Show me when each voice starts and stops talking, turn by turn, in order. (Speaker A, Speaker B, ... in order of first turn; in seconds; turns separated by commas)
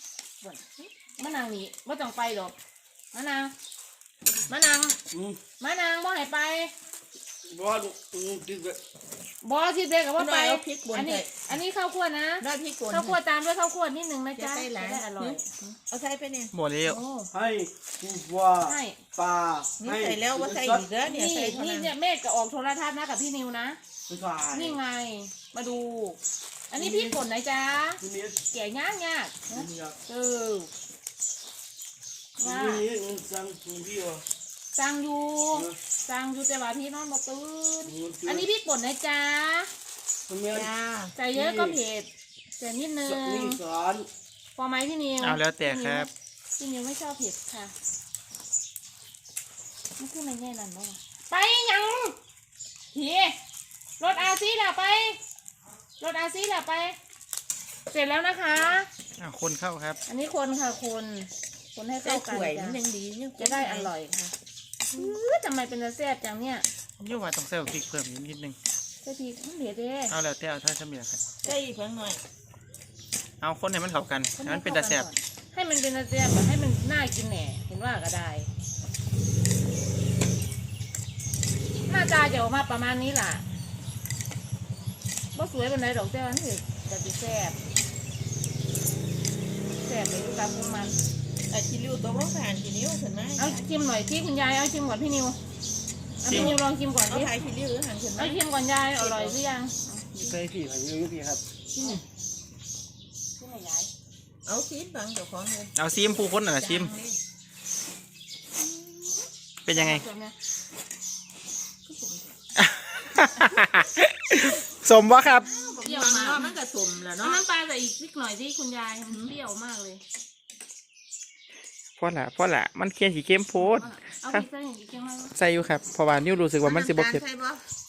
Speaker A: 0.4-2.5, Speaker A: 3.1-3.5, Speaker A: 4.5-5.0, Speaker B: 5.1-5.4, Speaker A: 5.6-6.7, Speaker B: 7.4-8.8, Speaker A: 9.4-15.5, Speaker C: 10.2-11.3, Speaker C: 12.4-13.2, Speaker C: 14.3-16.5, Speaker D: 16.5-17.0, Speaker A: 16.9-17.3, Speaker B: 17.3-20.9, Speaker A: 18.6-19.0, Speaker C: 19.8-21.9, Speaker A: 21.0-23.8, Speaker B: 24.1-24.8, Speaker A: 24.5-29.5, Speaker B: 26.8-27.1, Speaker B: 28.0-28.4, Speaker B: 29.5-30.0, Speaker A: 30.1-30.7, Speaker A: 32.4-32.9, Speaker B: 32.4-34.2, Speaker A: 34.7-39.7, Speaker B: 37.9-38.5, Speaker B: 40.3-40.7, Speaker C: 40.5-41.1, Speaker A: 41.1-43.6, Speaker B: 41.3-41.8, Speaker B: 43.0-44.1, Speaker A: 44.5-47.7, Speaker D: 45.2-46.1, Speaker A: 50.0-52.1, Speaker A: 52.9-53.4, Speaker A: 54.0-55.2, Speaker A: 56.0-57.0, Speaker A: 57.9-58.9, Speaker D: 59.2-60.0, Speaker A: 60.1-62.8, Speaker C: 62.0-63.9, Speaker A: 63.4-64.3, Speaker A: 64.9-66.7, Speaker D: 67.0-68.6, Speaker A: 69.0-70.2, Speaker D: 70.1-71.2, Speaker C: 71.4-72.2, Speaker D: 73.4-75.1, Speaker A: 74.4-78.5, Speaker A: 81.9-83.4, Speaker A: 85.3-87.6, Speaker A: 89.8-90.9, Speaker C: 91.5-93.6, Speaker A: 93.4-95.4, Speaker A: 96.2-97.3, Speaker D: 96.2-96.6, Speaker C: 96.2-98.4, Speaker A: 98.2-99.9, Speaker C: 99.0-99.4, Speaker C: 100.0-100.3, Speaker B: 100.2-101.4, Speaker D: 100.2-101.4, Speaker C: 101.7-102.0, Speaker A: 103.4-103.9, Speaker C: 104.4-105.8, Speaker D: 105.8-106.9, Speaker C: 106.5-107.2, Speaker C: 108.6-109.1, Speaker D: 109.7-110.0, Speaker A: 109.7-110.3, Speaker C: 111.9-112.3, Speaker D: 112.6-115.5, Speaker A: 115.4-116.5, Speaker C: 115.5-117.4, Speaker A: 117.2-120.0, Speaker D: 122.0-124.4, Speaker A: 123.5-125.3, Speaker D: 125.3-127.2, Speaker C: 126.6-127.6